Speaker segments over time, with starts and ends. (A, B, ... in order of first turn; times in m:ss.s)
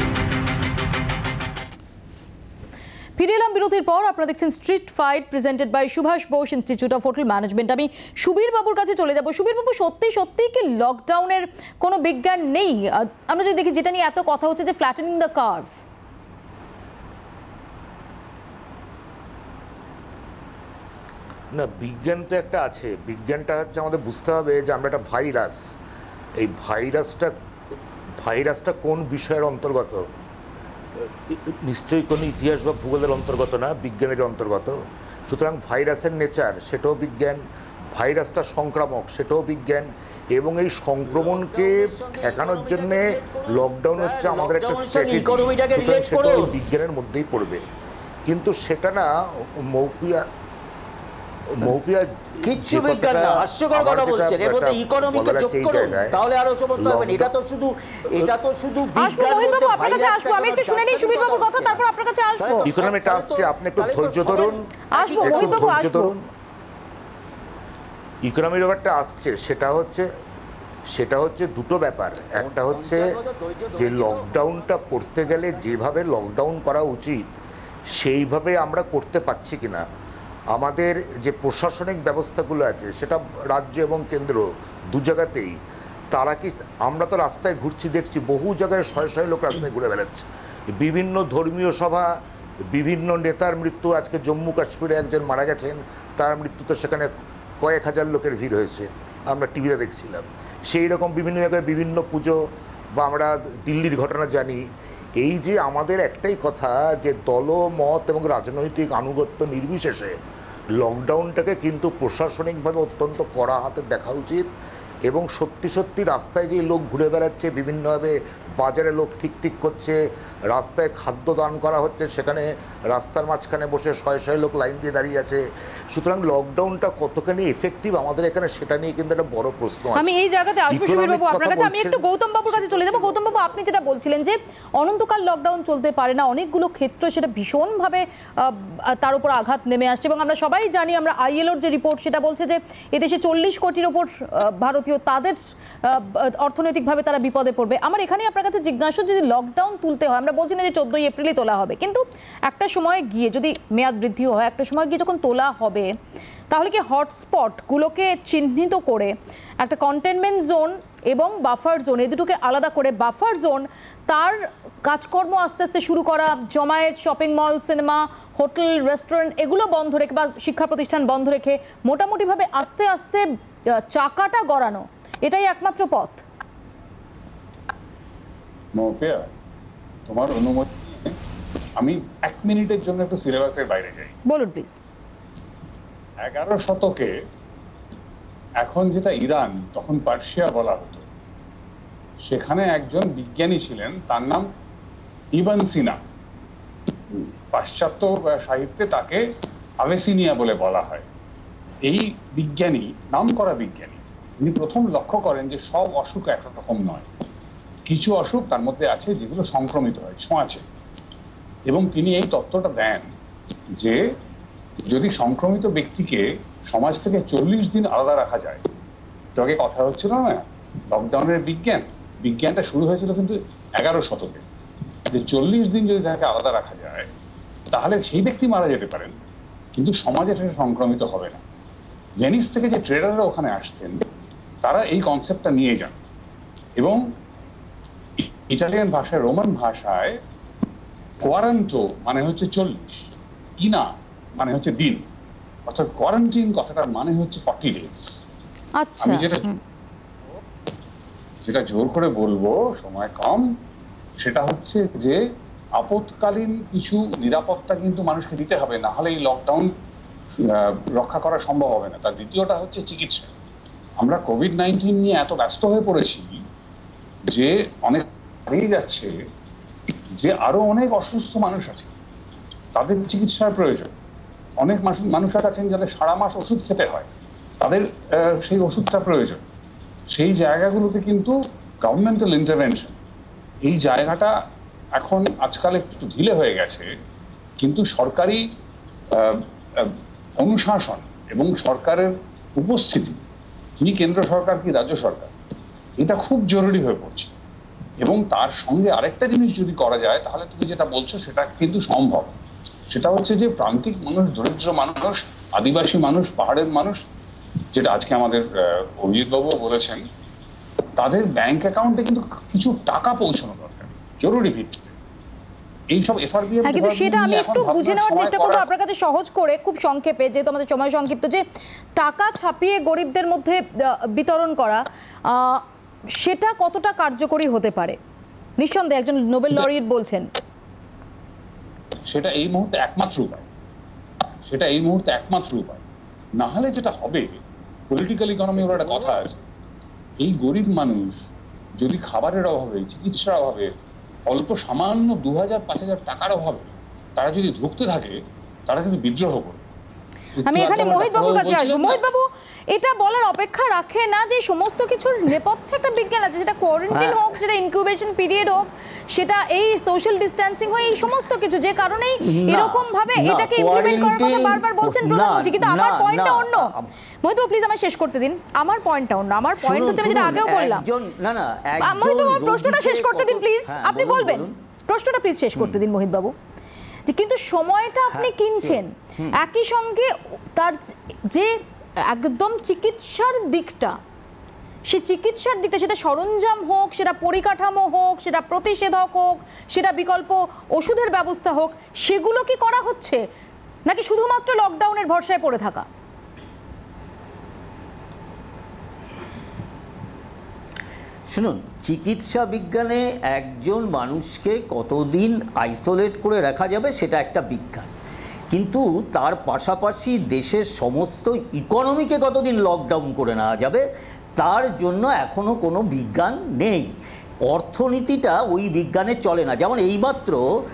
0:03.2-0:15.8 A
0:21.5-0:25.6 B
0:26.4-0:27.4 B
0:28.2-0:30.1 B
0:31.0-0:37.4 B
0:37.9-0:47.6 B
0:41.1-0:46.6 C
0:48.3-0:50.3 B
0:51.5-0:56.2 B
0:52.4-1:01.8 C
0:56.8-0:57.3 B
0:59.0-1:02.7 A
1:02.4-1:05.8 C
1:02.6-1:04.6 B
1:05.0-1:06.1 A
1:05.2-1:06.3 B
1:08.2-1:10.1 B
1:10.9-1:13.2 B
1:12.4-1:14.7 C
1:13.8-1:17.3 B
1:17.9-1:19.9 B
1:20.5-1:25.6 B
1:26.1-1:32.1 B
1:32.7-1:42.4 B
1:42.9-1:44.6 B
1:45.2-1:50.2 B
1:50.8-1:54.5 B
1:55.1-2:10.2 B
2:10.0-2:35.9 A
2:10.7-2:13.6 B
2:36.5-2:53.2 A
2:53.8-2:56.2 A
2:58.8-2:59.3 D
3:00.1-3:01.2 D
3:01.8-3:04.2 D
3:04.3-3:04.8 A
3:06.2-3:07.1 D
3:08.6-3:11.0 D
3:12.2-3:14.5 D
3:15.3-3:16.0 D
3:17.1-3:19.2 D
3:19.8-3:21.1 D
3:21.9-3:27.1 D
3:27.9-3:30.6 D
3:31.7-3:33.1 D
3:33.8-3:34.2 D
3:34.9-3:38.7 D
3:39.4-3:44.4 D
3:45.1-3:47.1 D
3:47.7-3:49.2 D
3:49.8-3:51.4 D
3:52.2-3:54.0 D
3:54.6-3:56.0 D
3:58.2-4:00.2 D
4:01.2-4:05.0 D
4:05.7-4:08.2 D
4:08.8-4:09.6 A
4:09.0-4:09.4 D
4:11.4-4:13.5 D
4:14.2-4:15.2 D
4:15.8-4:19.7 D
4:20.4-4:23.3 D
4:24.0-4:26.4 D
4:27.3-4:29.1 D
4:30.2-4:31.9 D
4:32.8-4:33.9 D
4:34.6-4:37.1 D
4:37.6-4:39.4 D
4:40.1-4:43.0 D
4:43.6-4:44.3 D
4:45.0-4:46.9 D
4:47.6-4:48.4 D
4:49.1-4:53.2 D
4:53.8-4:55.3 D
4:56.0-4:57.3 D
4:58.0-5:02.4 D
5:02.9-5:07.0 D
5:07.7-5:10.1 D
5:11.0-5:14.9 D
5:15.9-5:18.7 D
5:16.6-5:21.4 A
5:22.0-5:25.6 A
5:26.2-5:28.0 A
5:28.6-5:30.3 A
5:32.1-5:33.5 D
5:34.4-5:35.8 D
5:36.4-5:37.4 D
5:37.9-5:39.4 D
5:38.6-5:39.2 C
5:40.2-5:41.3 D
5:41.8-5:43.7 D
5:44.3-5:49.6 D
5:50.4-5:52.0 D
5:50.5-6:06.7 A
5:56.9-5:57.2 C
6:02.2-6:06.9 C
6:07.2-6:10.9 A
6:09.6-6:14.5 C
6:11.8-6:16.3 A
6:15.6-6:15.8 C
6:17.1-6:24.0 A
6:18.1-6:19.4 C
6:24.9-6:33.2 A
6:33.9-6:35.9 A
6:41.3-6:47.9 C
6:48.5-6:53.8 C
6:54.4-6:56.9 C
6:57.5-7:00.4 C